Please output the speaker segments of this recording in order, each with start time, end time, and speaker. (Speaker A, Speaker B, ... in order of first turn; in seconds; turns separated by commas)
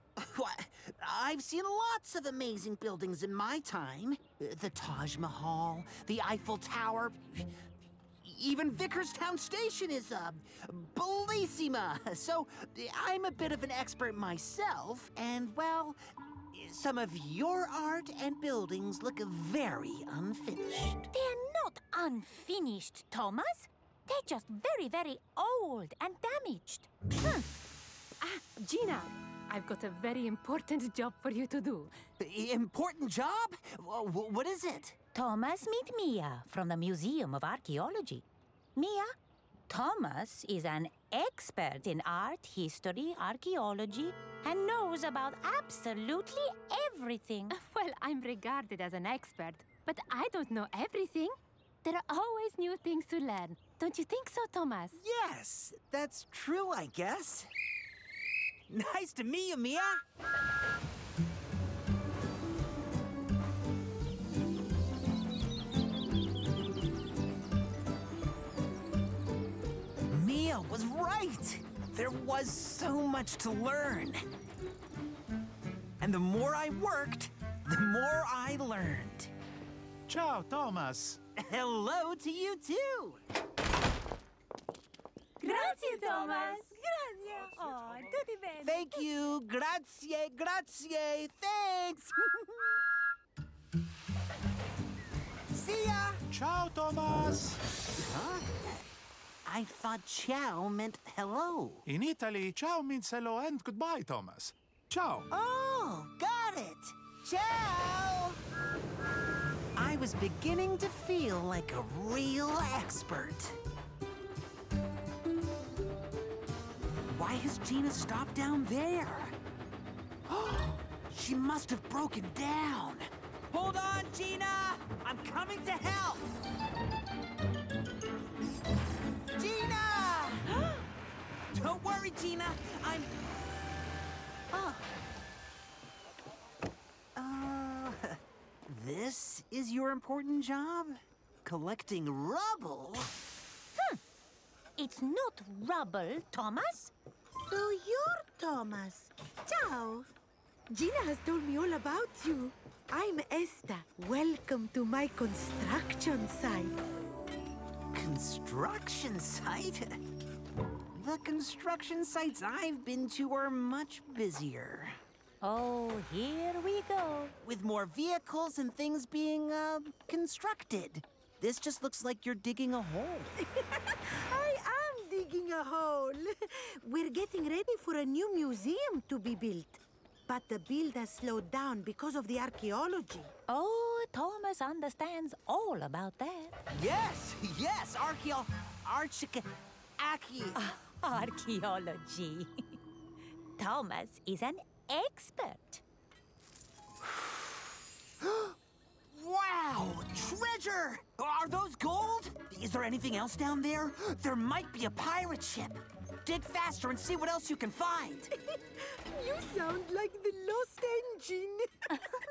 Speaker A: 0.2-7.5, Speaker A: 8.2-16.0, Speaker A: 16.5-21.1, Speaker B: 21.1-27.4, Speaker C: 28.2-31.9, Speaker A: 32.2-35.0, Speaker B: 35.1-39.1, Speaker B: 39.7-47.6, Speaker C: 47.5-55.0, Speaker A: 54.9-57.5, Speaker A: 58.7-60.0, Speaker A: 70.1-74.2, Speaker A: 76.0-79.3, Speaker D: 80.1-81.2, Speaker A: 81.4-83.2, Speaker B: 85.4-88.9, Speaker C: 86.0-86.4, Speaker A: 88.6-92.8, Speaker A: 95.5-96.2, Speaker D: 96.3-97.6, Speaker A: 98.0-98.8, Speaker A: 99.5-101.8, Speaker D: 101.9-105.3, Speaker A: 105.3-108.4, Speaker A: 109.8-113.6, Speaker A: 117.1-119.3, Speaker A: 120.3-126.3, Speaker A: 129.4-130.7, Speaker A: 131.5-133.2, Speaker A: 134.5-134.9, Speaker A: 137.2-138.2, Speaker A: 138.7-143.1, Speaker B: 144.8-146.9, Speaker E: 147.4-150.1, Speaker E: 150.7-156.8, Speaker A: 157.9-159.9, Speaker A: 160.9-165.0, Speaker B: 165.4-167.3, Speaker A: 167.4-173.3, Speaker E: 173.5-183.3, Speaker B: 183.5-186.6, Speaker A: 186.7-190.6, Speaker B: 190.6-192.5, Speaker B: 193.6-195.8, Speaker A: 197.0-197.6, Speaker A: 198.2-198.5, Speaker A: 199.1-208.3, Speaker E: 209.1-211.7